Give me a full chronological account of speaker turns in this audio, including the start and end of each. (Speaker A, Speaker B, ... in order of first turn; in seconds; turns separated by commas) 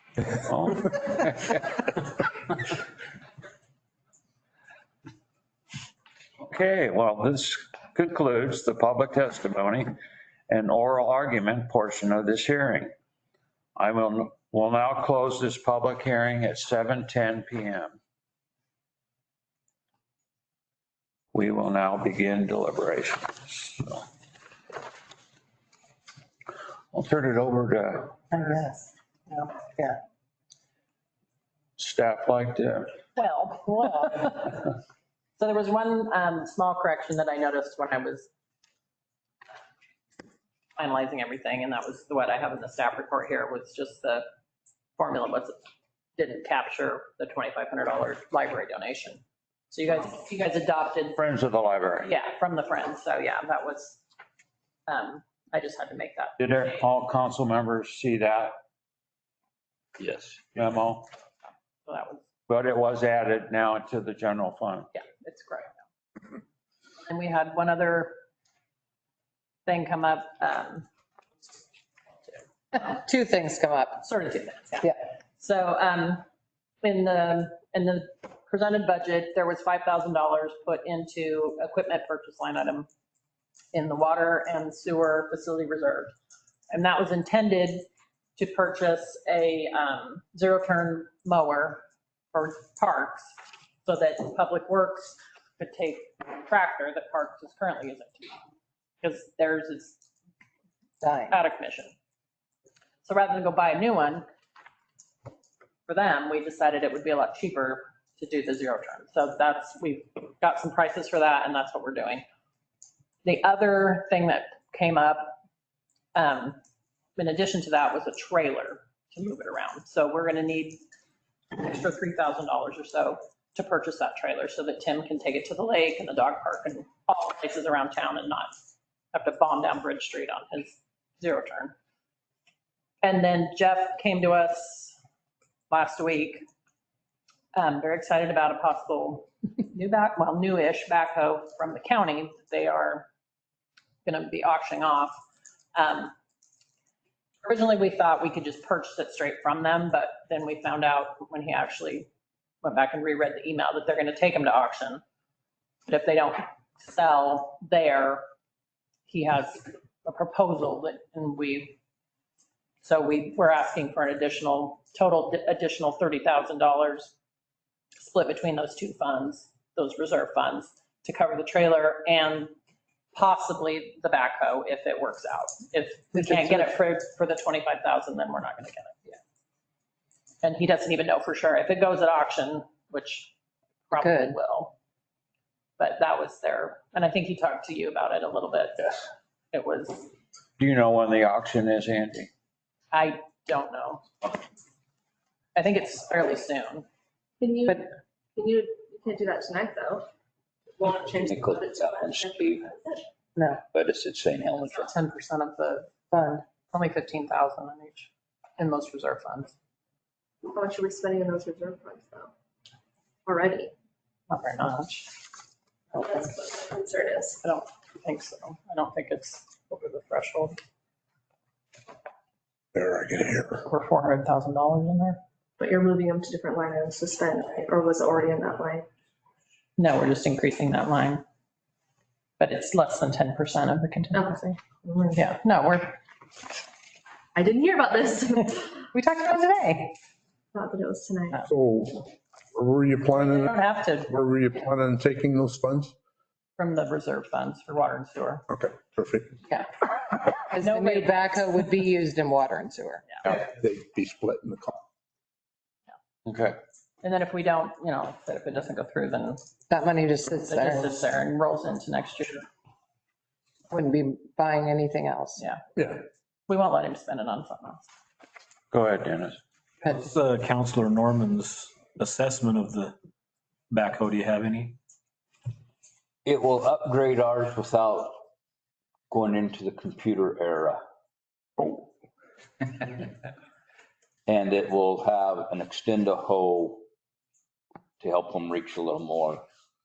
Speaker A: 0.4-1.6, Speaker A: 6.4-9.9, Speaker A: 10.5-12.9, Speaker A: 13.8-18.0, Speaker A: 21.3-24.0, Speaker A: 26.9-28.1, Speaker B: 28.3-28.9, Speaker A: 31.8-32.9, Speaker C: 33.1-34.7, Speaker C: 35.4-38.3, Speaker C: 40.8-44.2, Speaker C: 45.0-51.2, Speaker A: 51.1-52.1, Speaker C: 52.0-54.0, Speaker C: 54.9-56.8, Speaker A: 56.4-58.6, Speaker D: 60.0-60.5, Speaker A: 60.5-61.1, Speaker C: 61.8-62.2, Speaker A: 62.5-64.9, Speaker C: 64.9-65.8, Speaker C: 67.0-68.2, Speaker C: 69.7-70.8, Speaker B: 72.7-74.0, Speaker C: 74.0-76.2, Speaker C: 76.8-82.9, Speaker C: 83.7-86.1, Speaker C: 86.7-98.4, Speaker C: 99.0-100.0, Speaker B: 101.0-101.4, Speaker C: 101.3-101.9, Speaker C: 103.0-104.2, Speaker C: 105.9-112.2, Speaker C: 113.2-115.4, Speaker C: 116.1-116.6, Speaker C: 117.2-120.8, Speaker C: 121.5-128.5, Speaker C: 129.1-131.7, Speaker C: 133.0-135.0, Speaker C: 135.7-136.4, Speaker C: 137.5-143.1, Speaker C: 144.0-145.2, Speaker C: 145.7-146.1, Speaker C: 147.4-152.1, Speaker C: 152.6-155.0, Speaker C: 155.9-158.2, Speaker C: 159.1-161.8, Speaker C: 162.8-167.1, Speaker C: 168.0-172.5, Speaker C: 173.1-179.2, Speaker B: 176.1-176.7, Speaker C: 180.4-183.3, Speaker C: 183.9-184.7, Speaker B: 183.9-184.4, Speaker C: 185.8-188.9, Speaker C: 189.5-190.1, Speaker A: 190.6-192.3, Speaker C: 192.9-194.1, Speaker C: 195.5-196.8, Speaker E: 197.4-200.1, Speaker E: 200.8-203.0, Speaker D: 201.1-202.7, Speaker B: 203.3-203.6, Speaker D: 203.7-204.9, Speaker C: 204.6-205.9, Speaker B: 206.1-206.4, Speaker C: 206.7-209.5, Speaker E: 210.4-212.3, Speaker E: 213.2-213.7, Speaker C: 214.3-215.1, Speaker E: 216.0-217.4, Speaker C: 217.4-220.6, Speaker F: 222.7-223.6, Speaker C: 223.6-225.2, Speaker E: 225.6-228.8, Speaker C: 229.8-231.2, Speaker C: 232.4-234.6, Speaker E: 234.1-235.2, Speaker C: 235.1-236.0, Speaker E: 237.3-238.7, Speaker C: 238.9-239.9, Speaker E: 240.5-241.4, Speaker F: 241.4-245.9, Speaker C: 243.1-244.1, Speaker C: 246.6-248.4, Speaker F: 248.5-249.4, Speaker B: 250.5-253.0, Speaker C: 250.6-251.4, Speaker F: 253.2-254.8, Speaker A: 256.2-256.6, Speaker C: 257.0-259.4, Speaker B: 259.7-260.9, Speaker C: 260.4-262.4, Speaker B: 263.7-265.4, Speaker C: 266.5-267.8, Speaker A: 268.7-269.4, Speaker G: 270.1-272.9, Speaker G: 273.7-274.6, Speaker D: 276.2-278.2, Speaker D: 279.1-280.8, Speaker F: 281.6-281.9, Speaker D: 284.3-286.8, Speaker D: 288.0-289.4